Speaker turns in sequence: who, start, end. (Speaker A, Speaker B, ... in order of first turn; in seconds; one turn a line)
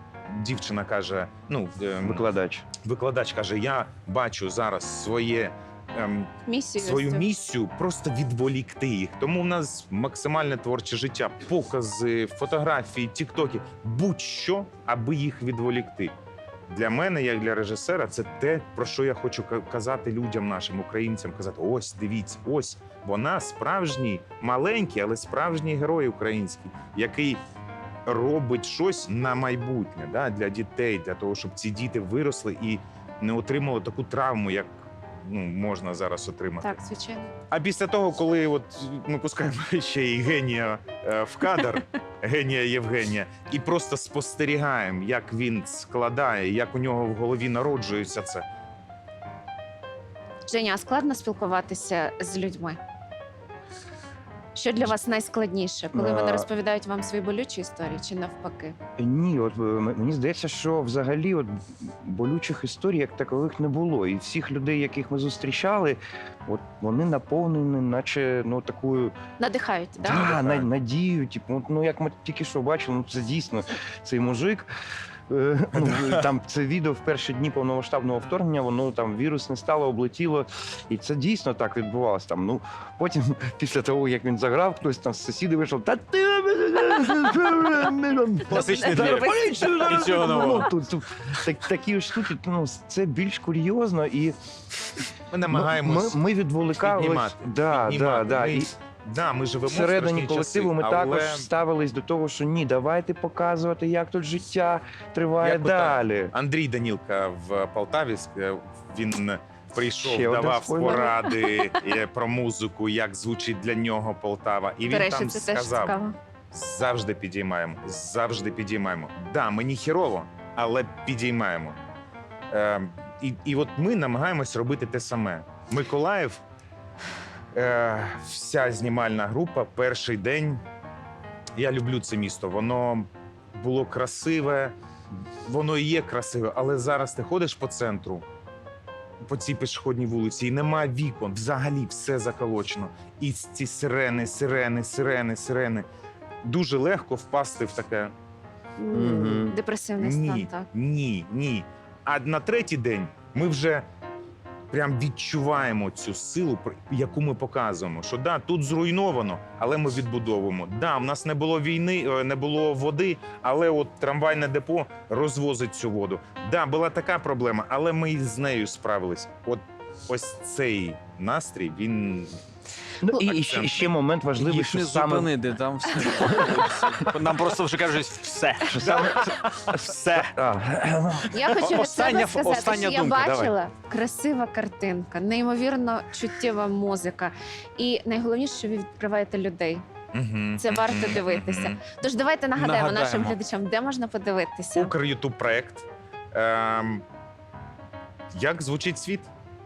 Speaker A: 0.3-2.3
Speaker B: 2.0-2.7
Speaker A: 2.8-16.1
Speaker C: 6.5-7.2
Speaker A: 16.7-27.4
Speaker A: 28.1-34.7
Speaker A: 35.2-36.8
Speaker C: 36.6-37.3
Speaker A: 37.5-48.5
Speaker C: 50.5-52.8
Speaker C: 54.5-58.8
Speaker B: 55.9-56.5
Speaker B: 59.0-69.2
Speaker C: 69.4-70.2
Speaker B: 70.0-74.7
Speaker A: 70.1-70.7
Speaker B: 75.3-94.3
Speaker D: 88.5-90.7
Speaker C: 88.8-89.1
Speaker A: 95.3-101.5
Speaker B: 95.5-98.7
Speaker B: 99.7-106.3
Speaker D: 105.4-105.9
Speaker A: 105.6-116.0
Speaker B: 110.0-111.2
Speaker C: 114.9-116.2
Speaker A: 116.5-121.8
Speaker A: 122.5-126.4
Speaker A: 127.5-130.6
Speaker A: 131.6-134.7
Speaker A: 135.4-138.2
Speaker A: 139.2-145.9
Speaker A: 146.4-148.1
Speaker C: 148.8-150.7
Speaker B: 148.9-149.6
Speaker A: 150.0-153.8
Speaker A: 154.7-172.4
Speaker B: 173.0-175.3
Speaker A: 173.2-173.9
Speaker D: 174.4-180.3
Speaker B: 178.7-181.5
Speaker C: 181.3-189.8
Speaker D: 181.5-183.5
Speaker A: 190.1-191.8
Speaker C: 190.6-194.9
Speaker D: 192.6-193.4
Speaker A: 194.8-197.0
Speaker A: 198.3-199.3